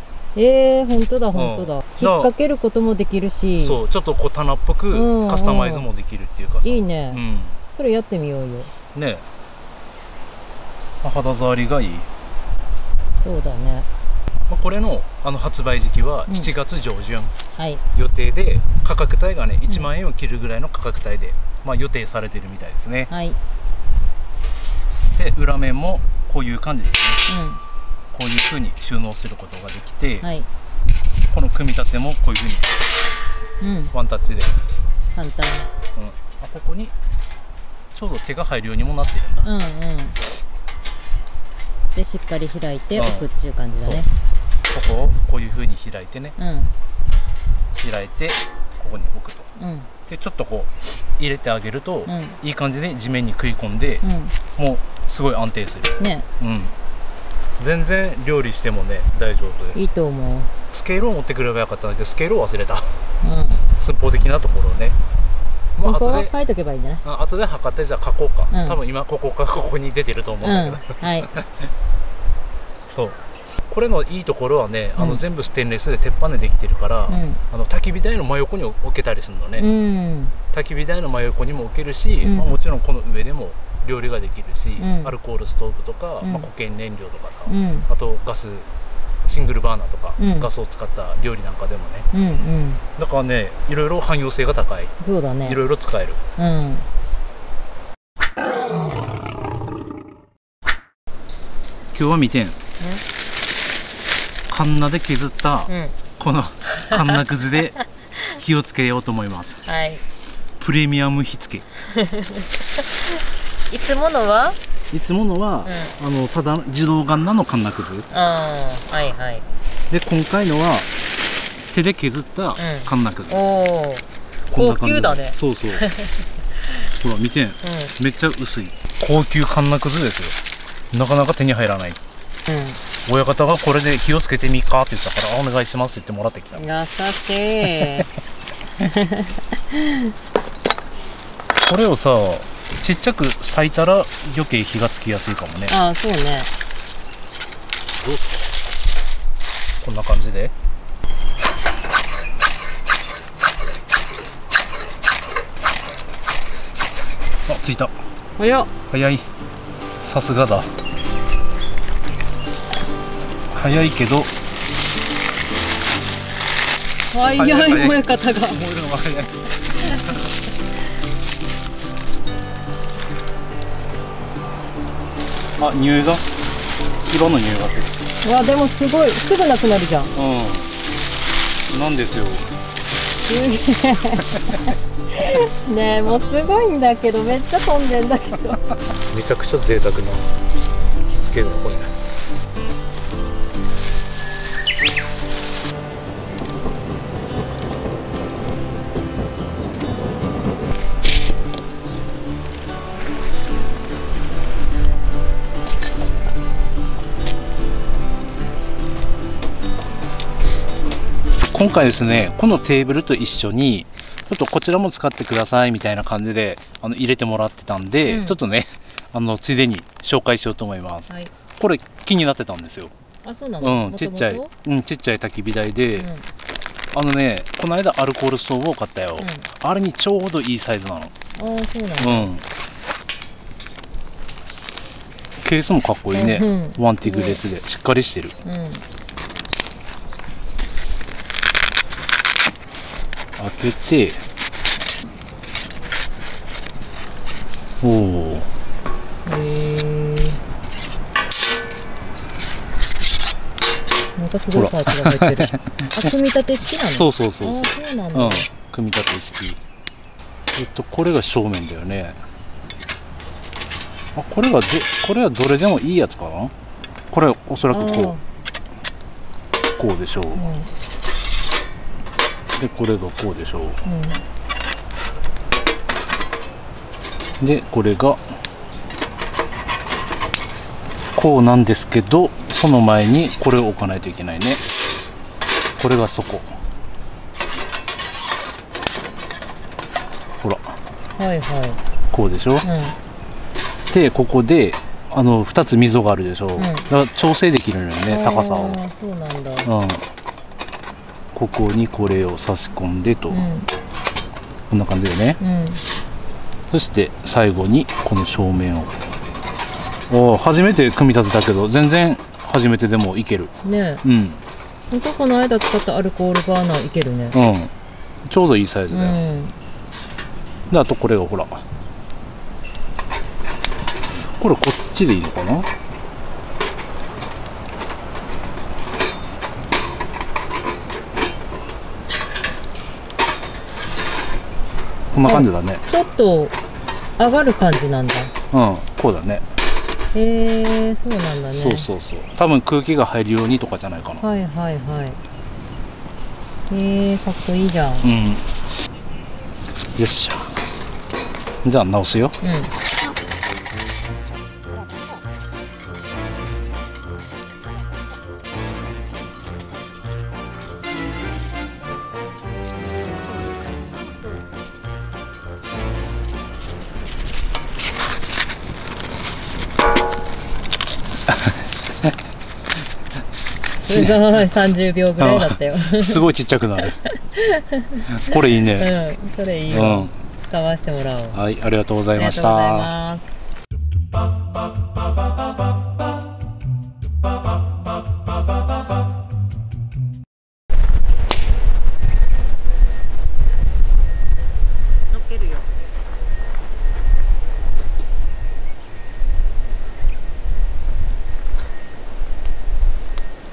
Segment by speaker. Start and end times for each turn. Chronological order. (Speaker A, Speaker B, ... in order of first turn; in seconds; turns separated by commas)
Speaker A: 0.3-3.8, Speaker B: 1.3-2.3, Speaker B: 3.6-7.6, Speaker A: 4.9-5.9, Speaker A: 6.6-8.7, Speaker B: 8.9-9.3, Speaker B: 11.0-12.1, Speaker A: 13.2-13.9, Speaker B: 14.5-17.3, Speaker A: 17.5-17.8, Speaker B: 17.9-23.1, Speaker A: 23.1-23.4, Speaker B: 25.1-27.2, Speaker A: 27.3-27.6, Speaker B: 28.1-30.3, Speaker A: 30.2-30.5, Speaker B: 31.3-32.8, Speaker A: 33.6-33.9, Speaker B: 33.9-34.5, Speaker A: 35.1-35.7, Speaker B: 36.0-36.9, Speaker B: 37.9-39.5, Speaker A: 39.4-40.2, Speaker A: 41.9-44.1, Speaker B: 43.0-43.3, Speaker B: 43.8-44.1, Speaker B: 44.7-46.4, Speaker A: 46.4-46.7, Speaker B: 47.7-49.5, Speaker A: 49.6-49.9, Speaker B: 50.1-54.0, Speaker A: 52.1-52.4, Speaker A: 54.0-54.4, Speaker B: 54.6-56.7, Speaker A: 56.0-56.3, Speaker B: 57.6-59.8, Speaker A: 59.8-60.5, Speaker B: 60.7-63.0, Speaker A: 63.2-63.6, Speaker B: 63.8-65.0, Speaker B: 65.8-66.3, Speaker A: 65.8-67.0, Speaker B: 67.0-71.7, Speaker A: 68.5-68.8, Speaker A: 70.4-71.3, Speaker B: 72.9-79.7, Speaker A: 75.0-75.2, Speaker A: 77.1-77.4, Speaker A: 79.6-80.4, Speaker B: 80.5-88.7, Speaker A: 82.2-82.5, Speaker A: 84.8-85.1, Speaker A: 86.2-86.5, Speaker A: 87.5-87.9, Speaker B: 89.3-92.1, Speaker A: 90.2-90.5, Speaker A: 92.1-92.8, Speaker B: 93.0-94.9, Speaker A: 95.0-95.6, Speaker B: 95.5-96.2, Speaker A: 96.4-96.9, Speaker B: 101.9-102.6, Speaker A: 102.8-103.0, Speaker B: 104.5-107.8, Speaker A: 105.7-106.0, Speaker A: 106.8-107.2, Speaker A: 107.8-108.2, Speaker B: 108.3-109.6, Speaker A: 109.7-110.0, Speaker B: 110.6-111.7, Speaker A: 111.8-114.6, Speaker B: 114.9-118.1, Speaker A: 115.7-116.0, Speaker A: 118.1-119.5, Speaker B: 119.9-120.9, Speaker B: 121.7-123.4, Speaker A: 122.6-126.9, Speaker B: 124.5-125.9, Speaker B: 126.9-130.4, Speaker A: 127.6-128.0, Speaker B: 130.9-132.0, Speaker A: 132.5-132.8, Speaker B: 133.1-136.7, Speaker A: 136.6-138.1, Speaker B: 137.7-138.0, Speaker A: 138.8-140.1, Speaker B: 141.6-145.7, Speaker A: 145.7-146.5, Speaker B: 148.0-148.5, Speaker B: 149.8-150.5, Speaker B: 157.5-157.9, Speaker A: 158.4-158.7, Speaker B: 158.9-159.3, Speaker B: 160.0-160.7, Speaker B: 163.5-164.3, Speaker A: 167.1-168.6, Speaker B: 167.3-170.3, Speaker B: 175.6-176.2, Speaker B: 177.1-178.0, Speaker A: 178.2-180.1, Speaker B: 180.1-180.7, Speaker B: 181.7-182.5, Speaker A: 183.2-188.8, Speaker B: 184.2-184.7, Speaker B: 189.0-190.3, Speaker B: 191.2-192.0, Speaker B: 211.5-222.9, Speaker A: 218.1-218.4, Speaker A: 223.2-224.5, Speaker B: 223.6-226.1, Speaker A: 226.0-226.3, Speaker B: 226.9-231.1, Speaker A: 229.2-229.5, Speaker A: 231.3-232.3, Speaker B: 232.0-232.4, Speaker B: 235.4-238.3, Speaker A: 236.1-237.4, Speaker A: 238.4-238.8, Speaker B: 243.4-244.2, Speaker B: 247.8-248.5, Speaker A: 249.2-250.4, Speaker A: 254.2-258.5, Speaker B: 254.5-255.9, Speaker B: 256.9-259.6, Speaker B: 260.6-262.2, Speaker B: 264.1-266.5, Speaker B: 267.1-268.1, Speaker A: 267.7-268.2, Speaker B: 269.8-270.5, Speaker A: 270.4-270.7, Speaker B: 272.5-273.8, Speaker A: 273.8-274.2, Speaker B: 277.4-278.2, Speaker B: 281.1-284.6, Speaker B: 285.8-286.6, Speaker B: 290.4-290.8, Speaker A: 291.2-291.8, Speaker B: 292.1-292.7, Speaker A: 292.6-293.0, Speaker B: 293.9-298.8, Speaker A: 296.6-296.9, Speaker A: 298.1-299.7, Speaker B: 299.6-300.0, Speaker B: 301.3-303.5, Speaker A: 303.3-303.7, Speaker B: 304.7-305.4, Speaker A: 305.4-305.8, Speaker B: 306.7-309.0, Speaker B: 310.1-313.5, Speaker A: 313.6-314.0, Speaker B: 314.0-314.4, Speaker A: 314.9-317.4, Speaker B: 317.3-317.7, Speaker B: 318.3-319.2, Speaker A: 318.9-319.6, Speaker B: 320.7-321.6, Speaker B: 324.1-325.7, Speaker B: 335.1-335.8, Speaker A: 335.2-336.6, Speaker A: 337.2-338.3, Speaker B: 338.5-339.4, Speaker A: 340.1-341.9, Speaker B: 341.5-344.2, Speaker A: 344.2-345.2, Speaker A: 346.7-348.1, Speaker B: 348.0-348.4, Speaker B: 349.9-350.6, Speaker B: 351.6-352.4, Speaker A: 352.4-352.7, Speaker B: 371.3-371.6, Speaker A: 373.8-376.2, Speaker B: 373.9-374.2, Speaker B: 375.2-377.0, Speaker A: 376.8-381.4, Speaker B: 378.1-378.9, Speaker B: 379.7-380.1, Speaker B: 381.3-382.9, Speaker A: 382.1-383.3, Speaker A: 395.1-395.7